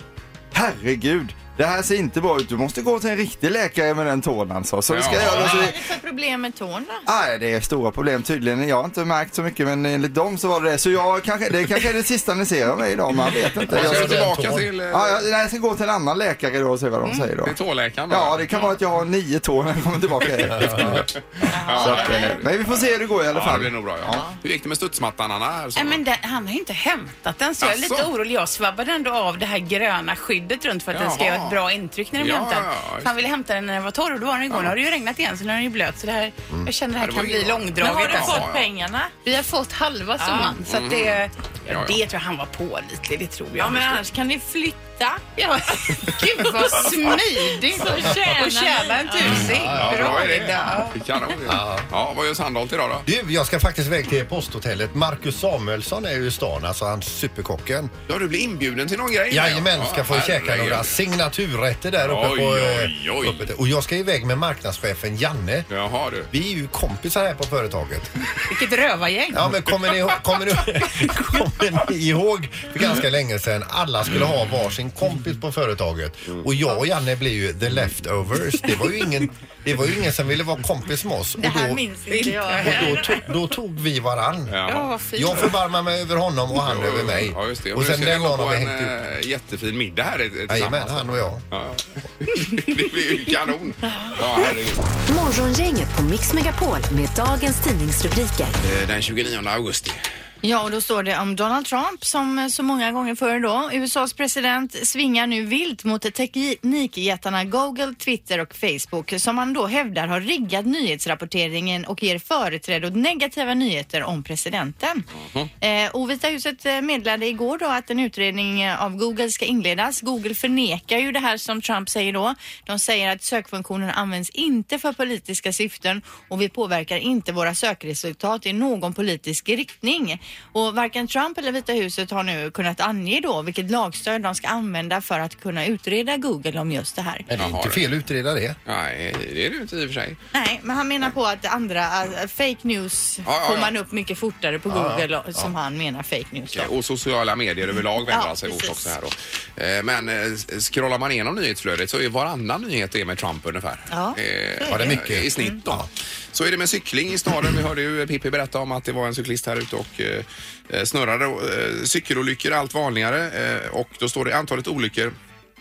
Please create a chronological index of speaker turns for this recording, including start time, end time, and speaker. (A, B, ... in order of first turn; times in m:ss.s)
0:00.5-0:05.8 A
0:04.9-0:05.7 B
0:05.2-0:07.0 C
0:07.1-0:17.5 A
0:13.6-0:14.7 D
0:13.7-0:15.2 B
0:17.4-0:18.7 B
0:18.1-0:21.1 A
0:20.4-0:21.1 B
0:20.5-0:21.1 D
0:21.5-0:22.4 C
0:21.6-0:26.0 B
0:21.8-0:24.2 A
0:25.7-0:38.5 E
0:27.6-0:28.1 B
0:30.9-0:31.6 B
0:32.2-0:33.1 B
0:34.5-0:34.7 B
0:37.0-0:38.6 B
0:37.8-0:39.2 C
0:39.2-0:44.0 E
0:40.2-0:40.6 C
0:40.6-0:42.0 B
0:43.6-0:49.5 C
0:45.4-0:51.0 E
0:49.5-0:50.2 D
0:49.7-0:53.0 B
0:51.4-0:51.9 D
0:53.0-0:57.9 D
0:58.1-1:01.0 B
0:59.3-1:05.7 D
1:02.0-1:03.5 B
1:05.7-1:06.3 B
1:06.3-1:08.2 D
1:08.5-1:09.4 E
1:09.3-1:21.8 D
1:21.4-1:23.2 C
1:22.1-1:23.2 E
1:22.6-1:24.6 D
1:24.5-1:24.9 B
1:24.7-1:25.5 E
1:25.1-1:28.9 D
1:26.6-1:34.8 B
1:30.5-1:31.4 D
1:33.9-1:34.2 C
1:35.1-1:38.5 F
1:38.6-1:40.0 B
1:40.4-1:55.0 C
1:55.2-1:55.5 B
1:55.6-2:17.3 C
2:17.3-2:18.6 D
2:17.4-2:17.8 B
2:18.6-2:20.2 B
2:20.3-2:26.7 C
2:23.2-2:23.7 B
2:24.7-2:25.5 D
2:26.5-2:45.1 B
2:28.1-2:28.9 C
2:33.9-2:35.6 C
2:34.7-2:35.9 D